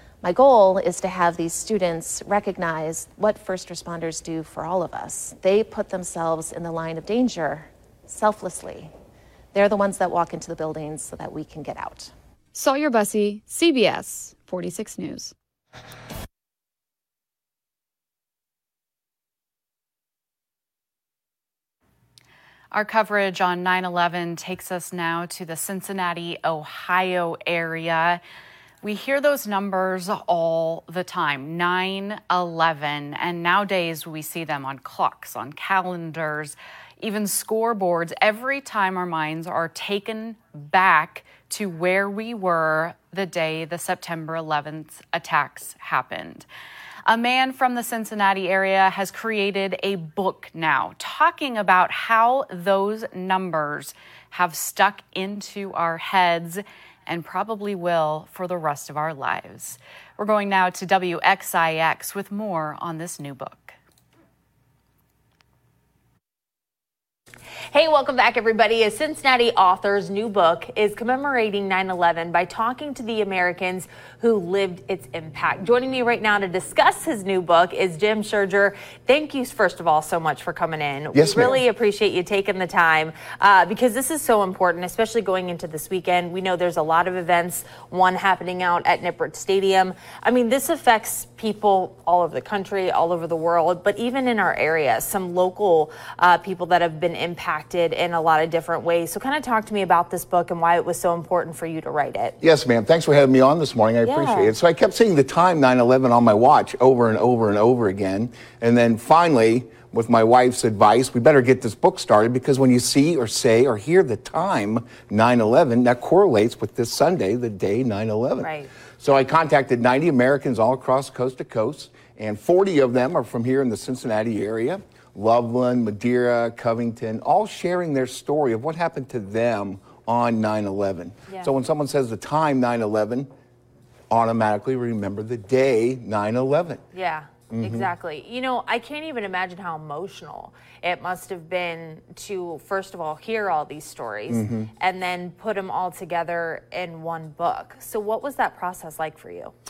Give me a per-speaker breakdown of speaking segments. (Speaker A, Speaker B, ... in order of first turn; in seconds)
Speaker A: 0.2-8.9, 9.5-12.1
Speaker B: 12.5-15.3
Speaker C: 22.7-28.2, 28.8-46.5, 47.0-63.8
Speaker D: 67.7-102.3, 104.0-104.5, 118.4-118.7, 136.9-149.5
Speaker E: 81.1-81.6, 102.4-133.3, 134.1-136.8, 137.5-137.9, 144.3-144.7